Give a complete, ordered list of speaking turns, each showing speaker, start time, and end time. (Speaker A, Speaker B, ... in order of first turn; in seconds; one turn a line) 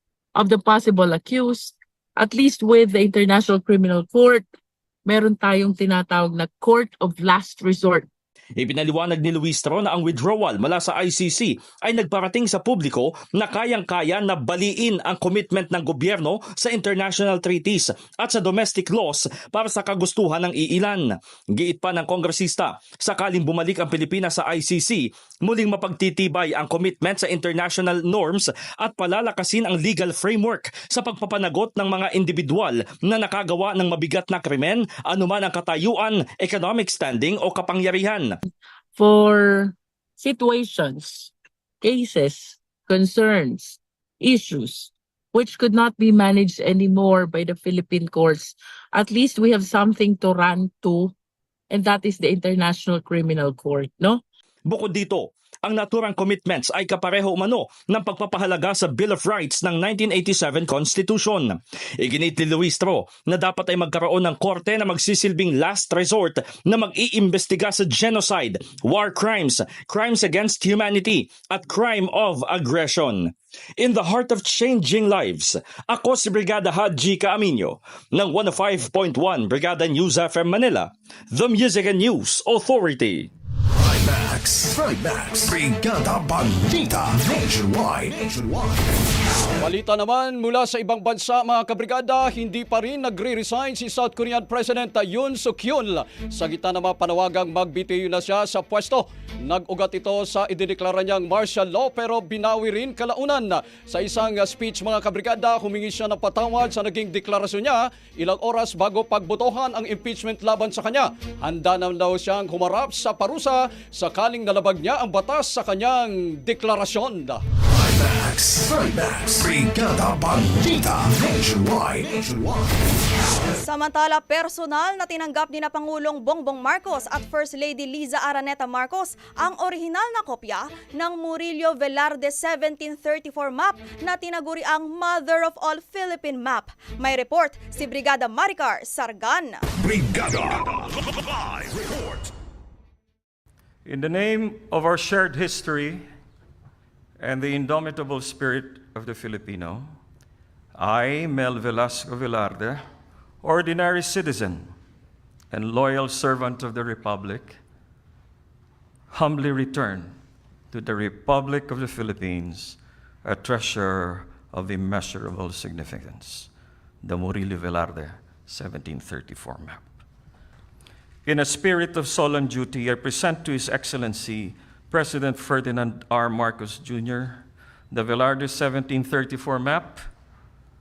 Speaker A: 0.5-4.4
Speaker A: 5.2-8.1
Speaker B: 8.6-38.3
Speaker A: 39.0-39.6
Speaker A: 40.2-41.3
Speaker A: 41.8-51.1
Speaker A: 51.7-54.2
Speaker B: 54.7-83.3
Speaker C: 83.7-88.9
Speaker D: 89.6-117.4
Speaker C: 117.7-122.7
Speaker E: 123.5-139.6
Speaker C: 139.8-140.8
Speaker C: 141.6-142.2
Speaker F: 143.8-146.0
Speaker F: 147.2-149.9
Speaker F: 150.8-152.8
Speaker F: 153.4-154.7
Speaker F: 155.5-157.6
Speaker F: 159.1-160.1
Speaker F: 160.7-166.5
Speaker F: 167.0-169.9
Speaker F: 171.3-180.0